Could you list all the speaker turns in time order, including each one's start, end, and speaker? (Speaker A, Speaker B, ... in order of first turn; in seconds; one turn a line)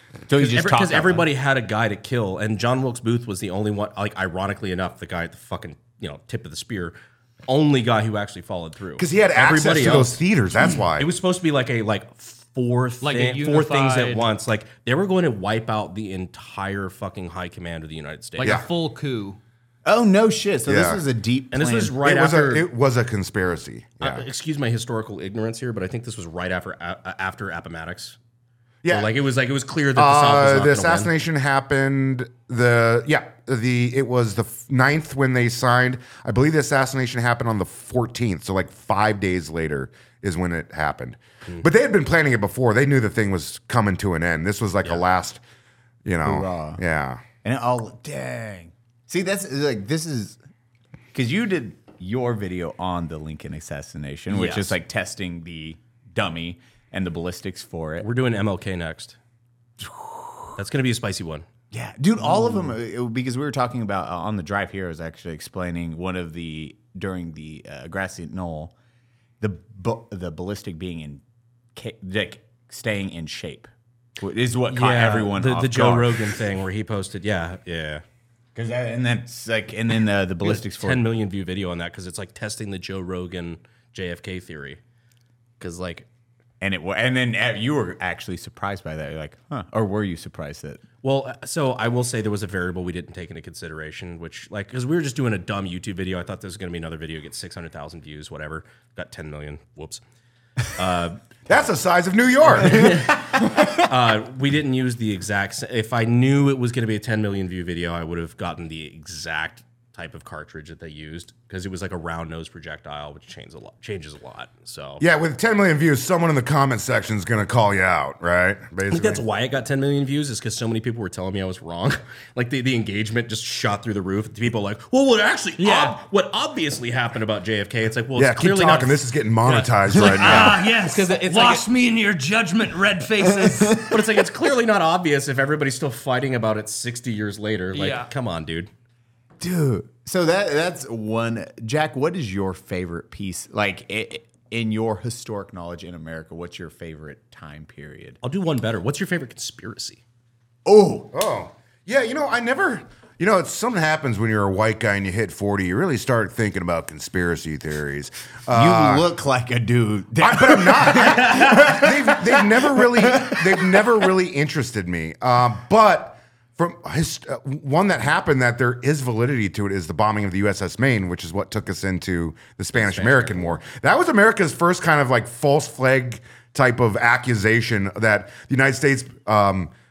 Speaker A: 0.3-1.3
Speaker B: 0.3-7.0
Speaker B: 7.5-18.5
Speaker C: 9.0-11.1
Speaker D: 13.0-14.3
Speaker D: 18.4-19.4
Speaker A: 19.9-22.0
Speaker C: 20.7-21.0
Speaker B: 21.5-22.7
Speaker C: 22.0-24.3
Speaker B: 24.0-28.2
Speaker C: 28.8-29.1
Speaker B: 28.9-31.1
Speaker C: 30.0-45.4
Speaker C: 46.0-47.2
Speaker A: 46.2-46.8
Speaker A: 47.4-50.4
Speaker A: 51.1-58.1
Speaker B: 54.3-54.7
Speaker B: 58.0-59.2
Speaker A: 59.8-60.2
Speaker B: 60.5-61.5
Speaker A: 61.7-68.7
Speaker A: 69.4-71.2
Speaker A: 71.8-76.4
Speaker B: 74.7-78.0
Speaker A: 78.5-81.1
Speaker B: 80.4-84.8
Speaker B: 85.6-86.1
Speaker A: 86.6-90.8
Speaker B: 91.0-100.0
Speaker B: 100.7-101.6
Speaker C: 101.5-103.0
Speaker B: 102.5-115.0
Speaker C: 115.0-119.2
Speaker B: 118.9-131.7
Speaker D: 125.6-126.0
Speaker C: 128.2-130.7
Speaker D: 129.9-133.9
Speaker A: 133.2-133.8
Speaker B: 133.9-138.7
Speaker D: 137.7-138.1
Speaker A: 139.4-148.2
Speaker B: 148.2-150.0
Speaker A: 150.7-151.1
Speaker C: 151.1-159.1
Speaker A: 158.5-164.1
Speaker C: 160.2-179.7
Speaker B: 172.7-173.6